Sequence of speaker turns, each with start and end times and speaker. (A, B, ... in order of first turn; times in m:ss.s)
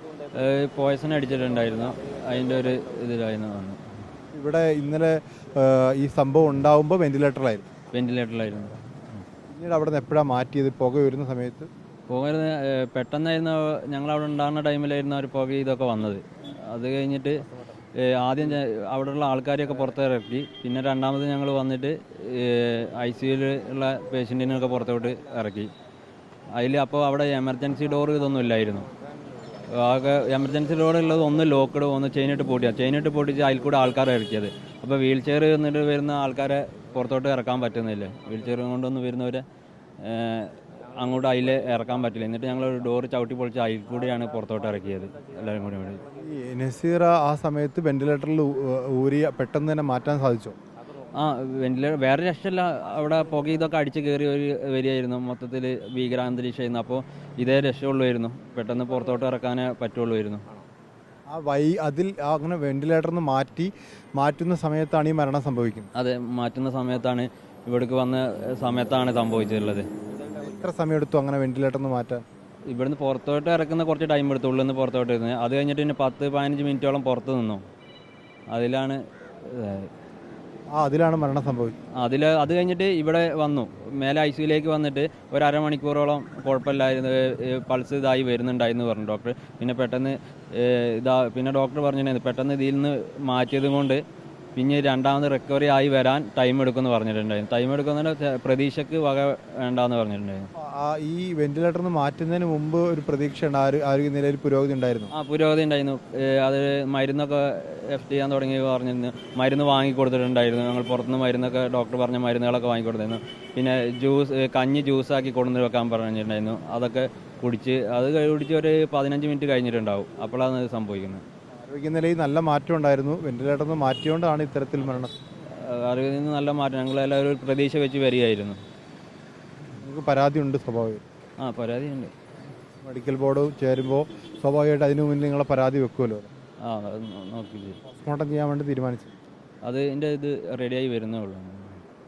0:00.3-0:03.8 A
0:04.3-0:07.7 B
0:07.9-0:09.2 A
0:09.5-0:11.7 B
0:12.1-0:17.4 A
0:17.4-0:17.8 B
0:18.0-0:25.7 A
0:26.6-0:28.9 A
0:29.7-0:39.4 A
0:40.0-0:46.0 A
0:46.2-0:50.6 B
0:51.1-1:00.5 A
1:01.3-1:05.9 B
1:05.9-1:09.9 A
1:10.4-1:12.2 B
1:12.7-1:17.6 A
1:18.5-1:19.9 A
1:20.8-1:21.8 B
1:22.0-1:34.0 A
1:34.6-1:40.5 A
1:40.6-1:45.1 B
1:45.1-2:01.2 A
2:01.6-2:05.1 B
2:04.8-2:08.6 A
2:09.8-2:11.0 B
2:11.4-2:12.1 A
2:12.8-2:16.3 B
2:16.6-2:17.8 A
2:17.8-2:19.2 B
2:19.6-2:21.8 A